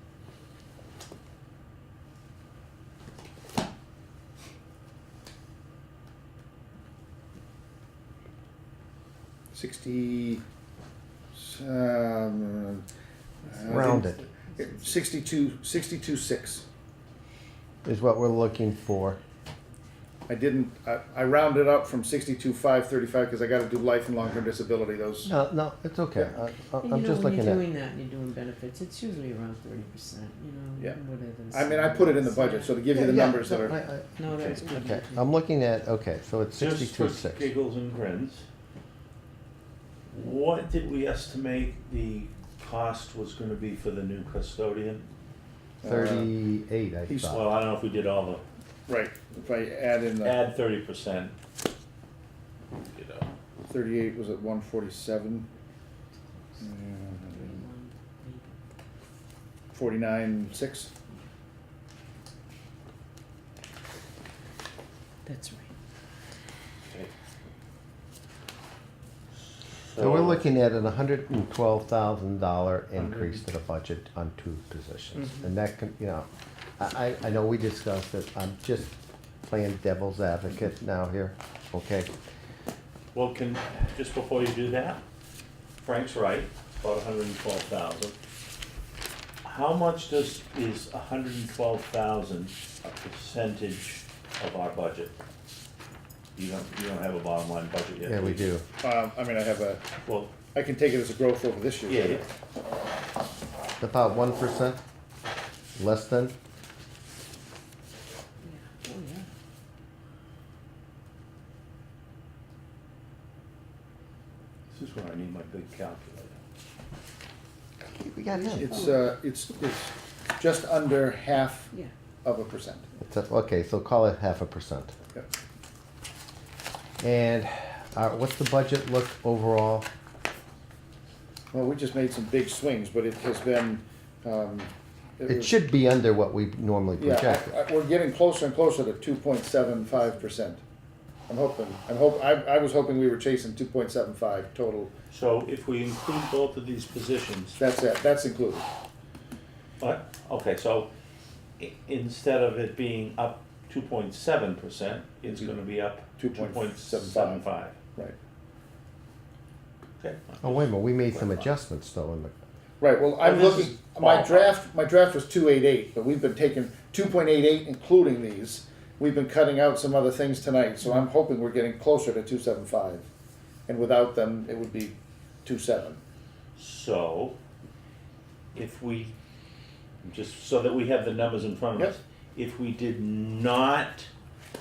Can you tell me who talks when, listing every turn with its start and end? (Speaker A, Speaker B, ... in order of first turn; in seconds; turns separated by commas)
Speaker A: 9.5-10.4, Speaker A: 11.3-12.8, Speaker A: 13.4-16.6, Speaker B: 13.4-15.0, Speaker C: 13.7-14.2, Speaker C: 17.9-19.2, Speaker A: 20.3-25.3, Speaker C: 25.2-27.6, Speaker B: 26.8-33.0, Speaker A: 31.5-33.8, Speaker C: 32.9-37.5, Speaker B: 34.2-35.3, Speaker D: 34.4-34.6, Speaker D: 36.6-38.5, Speaker D: 40.1-45.1, Speaker A: 45.8-46.3, Speaker C: 45.8-47.5, Speaker D: 47.2-48.4, Speaker A: 48.9-50.4, Speaker D: 50.2-51.4, Speaker D: 52.9-53.3, Speaker A: 53.7-55.5, Speaker A: 56.6-57.6, Speaker B: 57.2-58.6, Speaker A: 59.7-60.9, Speaker B: 65.3-65.7, Speaker D: 66.8-67.1, Speaker D: 69.4-70.4, Speaker C: 70.0-82.1, Speaker D: 73.0-73.4, Speaker D: 83.1-85.0, Speaker D: 85.8-88.2, Speaker D: 89.4-95.2, Speaker D: 96.4-98.5, Speaker C: 98.0-98.7, Speaker A: 98.8-99.8, Speaker D: 100.0-100.4, Speaker A: 100.5-102.2, Speaker D: 101.9-102.2, Speaker C: 103.8-104.8, Speaker C: 105.8-106.3, Speaker B: 108.4-109.3, Speaker D: 114.7-116.4, Speaker C: 117.9-118.9, Speaker B: 118.3-119.1, Speaker A: 118.6-122.8, Speaker C: 123.0-124.9, Speaker C: 127.0-129.9, Speaker A: 131.5-135.5, Speaker C: 135.3-137.5, Speaker A: 137.0-140.6, Speaker A: 141.3-144.9, Speaker D: 145.1-147.6, Speaker A: 147.6-148.7, Speaker D: 149.8-150.9, Speaker D: 151.6-157.8, Speaker A: 156.2-158.2, Speaker D: 160.0-161.5, Speaker C: 160.4-162.3, Speaker A: 162.8-173.1, Speaker D: 163.2-164.4, Speaker A: 173.7-176.0, Speaker D: 176.6-177.4, Speaker D: 178.6-179.2, Speaker D: 180.0-184.1